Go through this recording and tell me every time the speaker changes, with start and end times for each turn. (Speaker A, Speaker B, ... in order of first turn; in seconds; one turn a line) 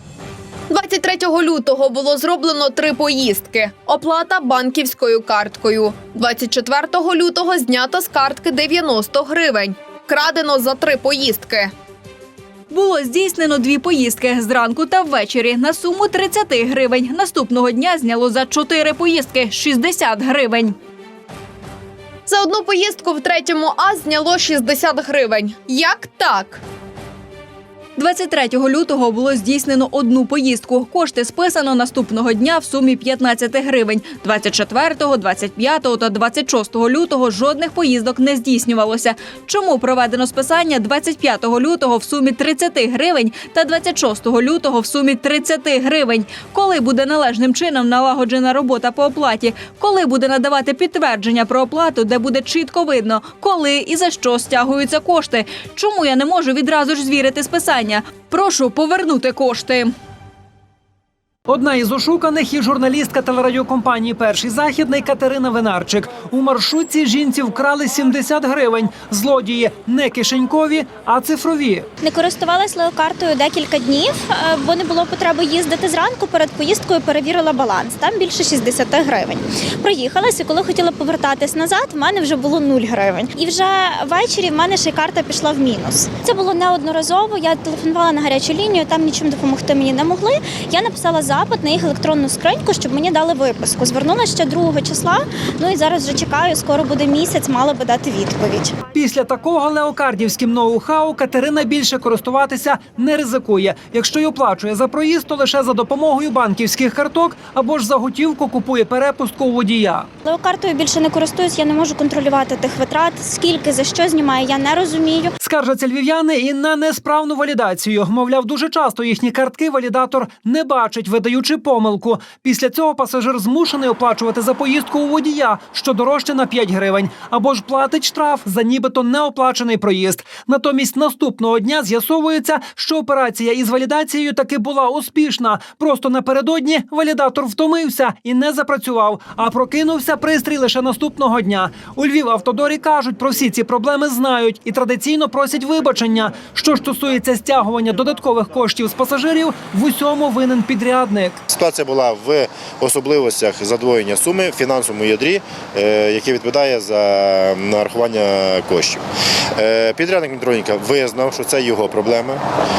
Speaker A: 0.7-11.7
Speaker B: 12.7-20.8
Speaker A: 22.3-26.6
Speaker B: 27.9-59.9
Speaker C: 61.5-71.9
Speaker D: 72.0-98.7
Speaker C: 98.9-110.1
Speaker D: 110.2-115.3
Speaker C: 115.4-151.4
Speaker E: 151.5-159.0
Speaker E: 159.6-162.4